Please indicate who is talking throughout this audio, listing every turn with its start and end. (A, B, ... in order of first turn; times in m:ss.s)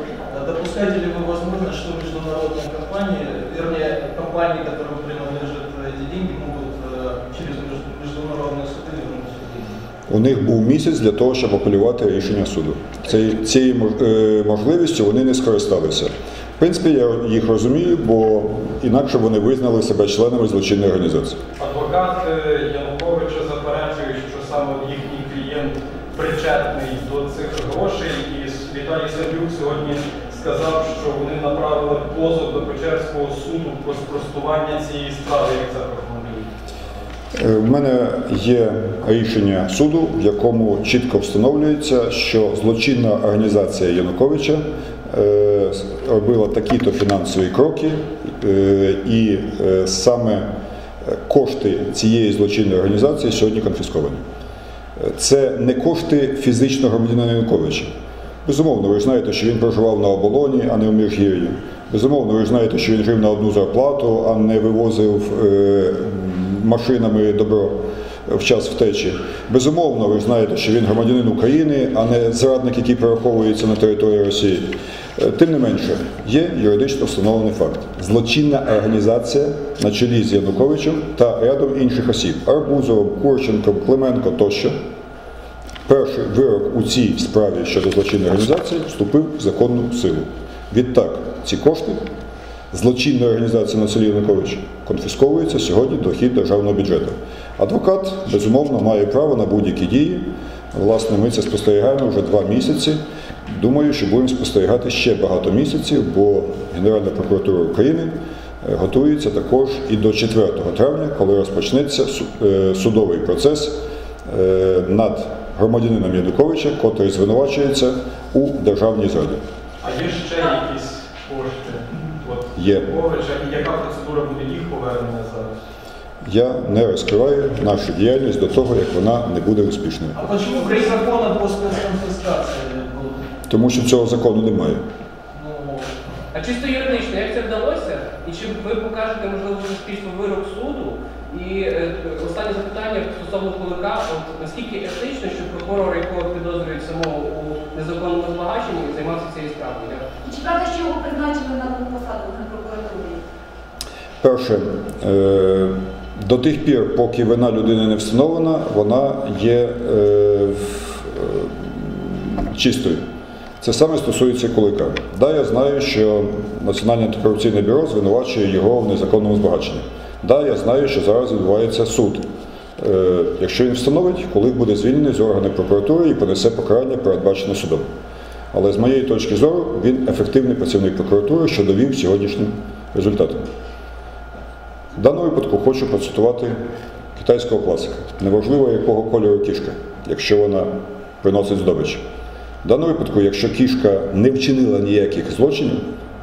0:00.3-0:09.8 A
0:10.1-0:21.4 B
0:21.6-0:36.5 C
0:37.3-0:50.5 B
0:51.0-0:54.2 B
0:55.0-0:57.9 B
0:58.4-1:24.8 B
1:25.9-1:32.0 B
1:32.7-1:59.4 B
1:59.8-2:05.5 C
2:02.5-2:02.9 B
2:06.2-2:10.2 B
2:10.1-2:13.4 A
2:13.5-2:14.8 B
2:15.3-2:15.9 A
2:16.3-2:30.0 D
2:30.2-2:33.2 E
2:34.2-2:43.0 B
2:43.6-2:57.9 B
2:58.5-3:03.5 B
3:05.0-3:06.6 B
3:07.2-3:12.0 B
3:12.6-3:15.9 B